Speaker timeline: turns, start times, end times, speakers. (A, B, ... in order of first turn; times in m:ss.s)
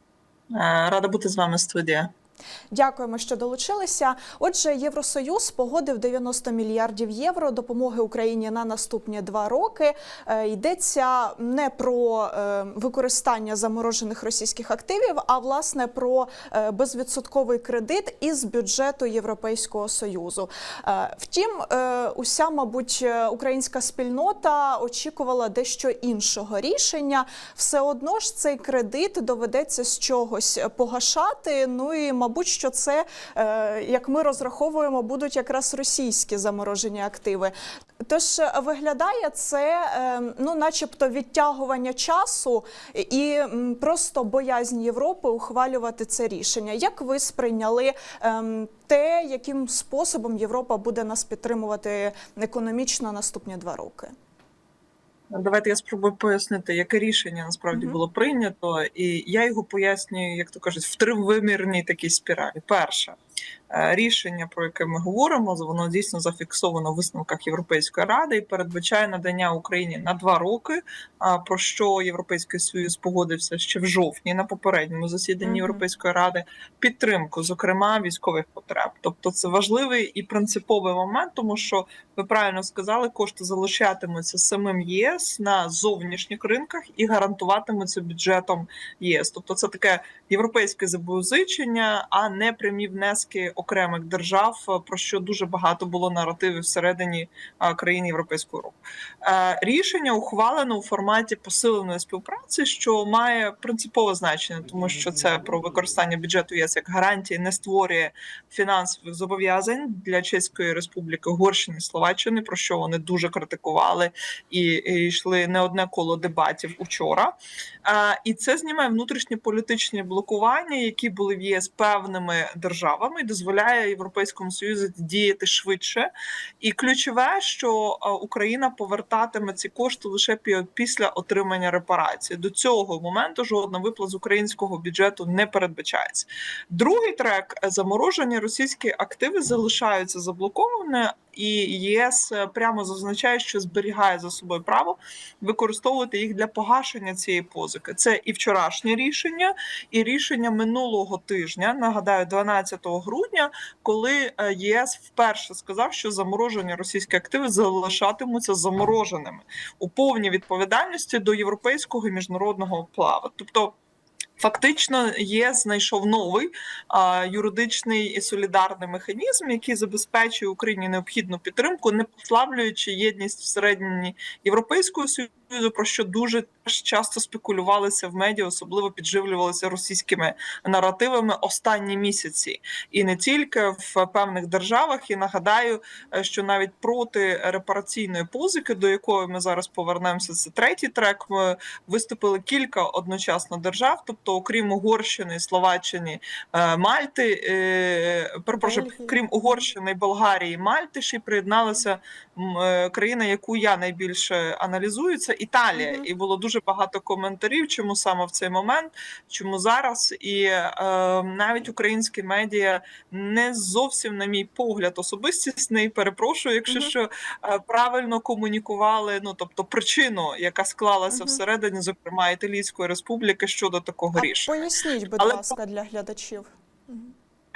0:00.5-0:02.1 A
0:02.7-0:54.1 B
0:55.3-1:03.2 A
0:57.7-0:58.0 B
1:03.7-2:06.1 A
1:15.4-1:15.8 B
2:06.6-2:43.8 A
2:44.4-3:44.6 A
3:18.6-3:19.2 B
3:25.8-3:26.1 B
3:41.1-3:41.4 B
3:44.1-3:47.1 B
3:45.2-3:45.5 A